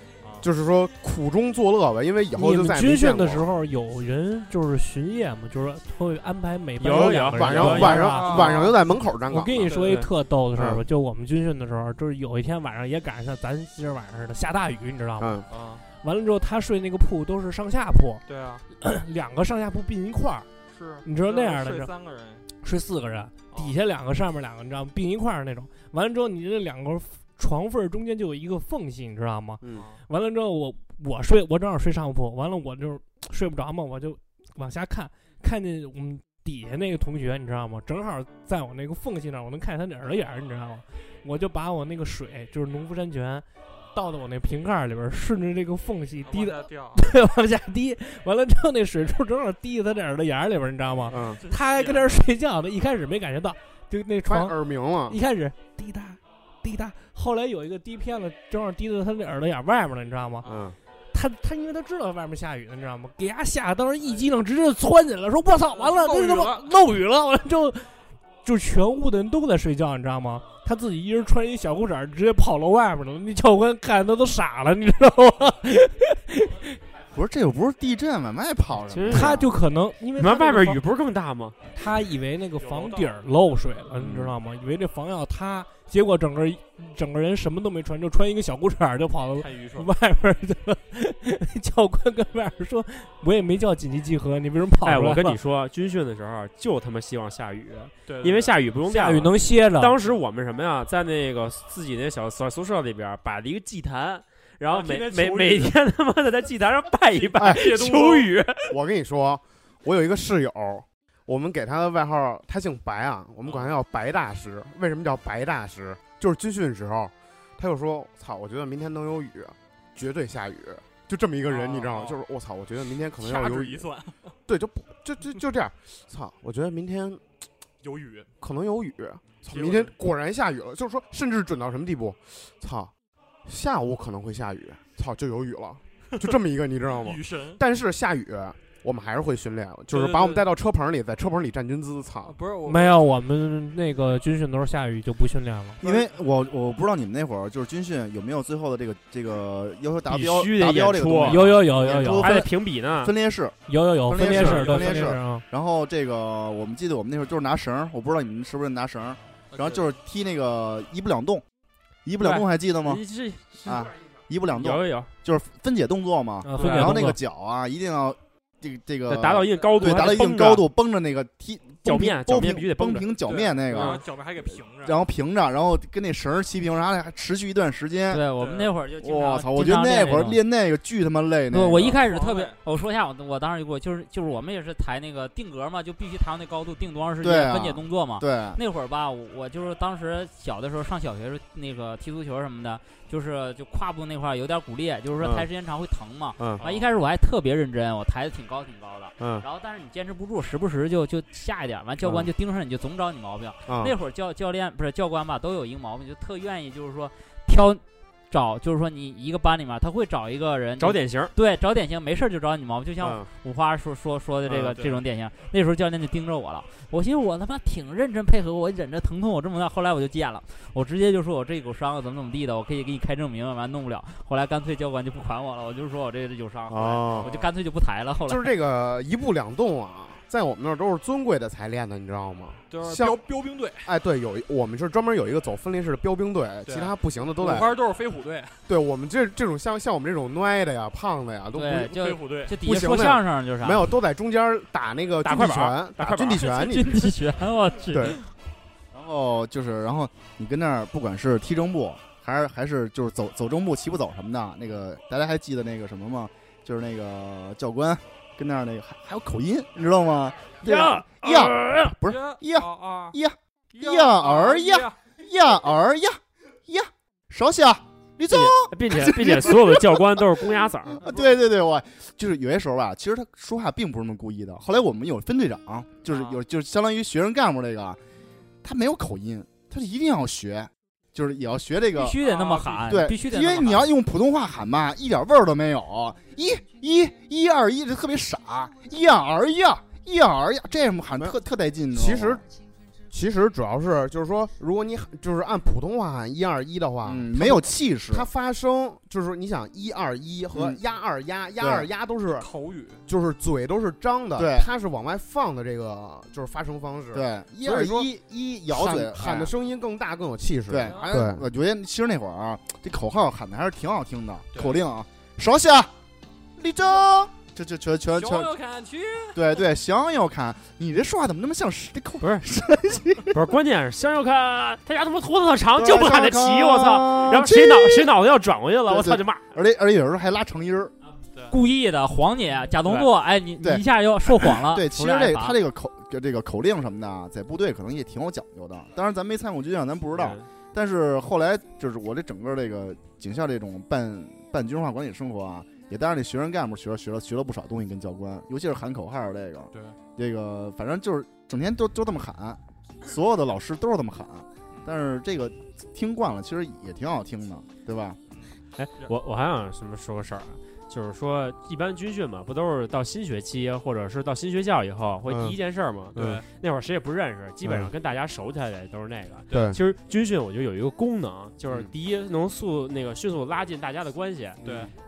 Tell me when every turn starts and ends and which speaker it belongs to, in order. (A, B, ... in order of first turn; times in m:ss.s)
0:00.2-0:00.5 A
0:00.4-0:03.5 B
0:02.4-0:08.7 C
0:06.8-0:08.2 D
0:06.9-0:09.8 B
0:07.6-0:08.7 A
0:09.3-0:15.4 C
0:09.7-0:10.1 A
0:10.6-0:10.8 B
0:15.2-0:15.4 B
0:15.5-0:15.8 A
0:16.0-0:18.2 C
0:18.3-0:18.6 A
0:18.7-0:20.5 C
0:20.7-0:22.4 A
0:21.0-0:21.9 C
0:22.6-0:54.6 C
0:29.7-0:30.0 A
0:46.2-0:47.0 A
0:51.1-0:52.2 A
0:51.1-0:51.4 B
0:54.3-0:55.2 B
0:55.1-1:00.5 C
1:00.4-1:00.7 A
1:00.5-1:00.8 B
1:01.1-1:07.9 C
1:05.7-1:06.6 A
1:08.4-1:16.8 C
1:17.1-1:19.4 E
1:18.9-1:19.3 D
1:19.1-1:20.8 C
1:20.2-1:21.6 D
1:21.7-1:35.4 C
1:22.6-1:23.1 A
1:24.0-1:24.3 B
1:29.4-1:29.9 A
1:34.8-1:48.7 D
1:38.1-1:38.6 A
1:38.9-1:40.0 C
1:44.7-1:45.7 A
1:47.4-1:47.9 B
1:47.4-1:48.3 A
1:48.7-2:03.9 B
1:53.4-1:53.7 A
2:01.4-2:02.2 A
2:03.2-2:04.1 A
2:04.5-2:07.2 B
2:07.8-2:08.3 A
2:08.4-2:12.9 B
2:09.5-2:09.9 A
2:13.4-2:22.4 B
2:17.0-2:17.6 A
2:19.9-2:20.5 A
2:22.2-2:23.0 A
2:22.7-2:25.8 C
2:25.8-2:33.6 E
2:30.1-2:33.1 D
2:31.2-2:32.4 C
2:33.7-2:35.4 C
2:34.1-2:41.4 E
2:34.3-2:34.8 D
2:34.3-2:35.1 A
2:39.5-2:39.8 A
2:42.0-2:43.0 E
2:42.2-2:43.9 D
2:43.6-2:54.0 E
2:44.5-2:45.1 D
2:46.4-2:47.2 C
2:46.6-2:47.0 A
2:49.1-2:50.7 D
2:51.8-2:53.1 D
2:53.2-2:55.0 A
2:53.7-2:54.0 D
2:54.8-2:58.2 E
2:58.1-3:00.4 F
2:58.4-2:58.7 A
2:59.0-3:02.0 E
3:01.5-3:48.5 F
3:02.0-3:02.6 A
3:07.2-3:08.6 E
3:15.2-3:15.5 B
3:16.4-3:16.6 B
3:16.6-3:16.8 A
3:19.2-3:19.4 B
3:22.0-3:22.3 B
3:23.7-3:23.9 B
3:30.8-3:31.3 D
3:33.0-3:33.3 B
3:34.5-3:34.7 B
3:46.7-3:47.3 B
3:48.3-3:53.2 B
3:52.7-3:53.9 A
3:53.8-3:57.8 B
3:56.7-3:58.6 A
3:58.7-4:02.0 B
4:01.5-4:03.9 F
4:02.0-4:02.6 A
4:02.6-4:07.1 B
4:05.2-4:06.5 D
4:06.4-4:08.3 F
4:07.9-4:08.2 B
4:08.9-4:30.5 E
4:20.6-4:21.9 D
4:22.1-4:23.2 A
4:23.7-4:25.0 A
4:28.3-4:31.0 D
4:31.0-4:38.0 E
4:36.1-4:36.4 A
4:38.6-4:42.2 E
4:42.0-4:43.9 F
4:42.2-4:43.0 A
4:42.9-4:52.4 E
4:51.9-4:52.4 B
4:53.1-5:02.5 B
4:57.0-4:58.3 E
5:00.5-5:00.8 E
5:01.6-5:01.9 E
5:02.4-5:03.0 A
5:03.1-5:08.1 B
5:04.4-5:04.7 E
5:07.1-5:09.5 E
5:08.7-5:11.4 B
5:10.7-5:15.9 E
5:10.8-5:11.1 A
5:14.5-5:14.8 A
5:16.6-5:18.5 E
5:18.2-5:19.4 A
5:19.4-5:23.4 E
5:22.2-5:22.4 D
5:23.3-5:29.4 D
5:25.8-5:28.1 E
5:28.9-5:30.9 E
5:31.5-5:35.6 F
5:33.6-5:58.2 E
5:40.2-5:40.4 D
5:58.8-6:14.6 D
6:05.3-6:05.6 B
6:06.2-6:06.4 B
6:06.2-6:06.4 A
6:07.6-6:07.9 B
6:09.5-6:09.8 B
6:14.6-6:14.9 B
6:14.6-6:14.9 A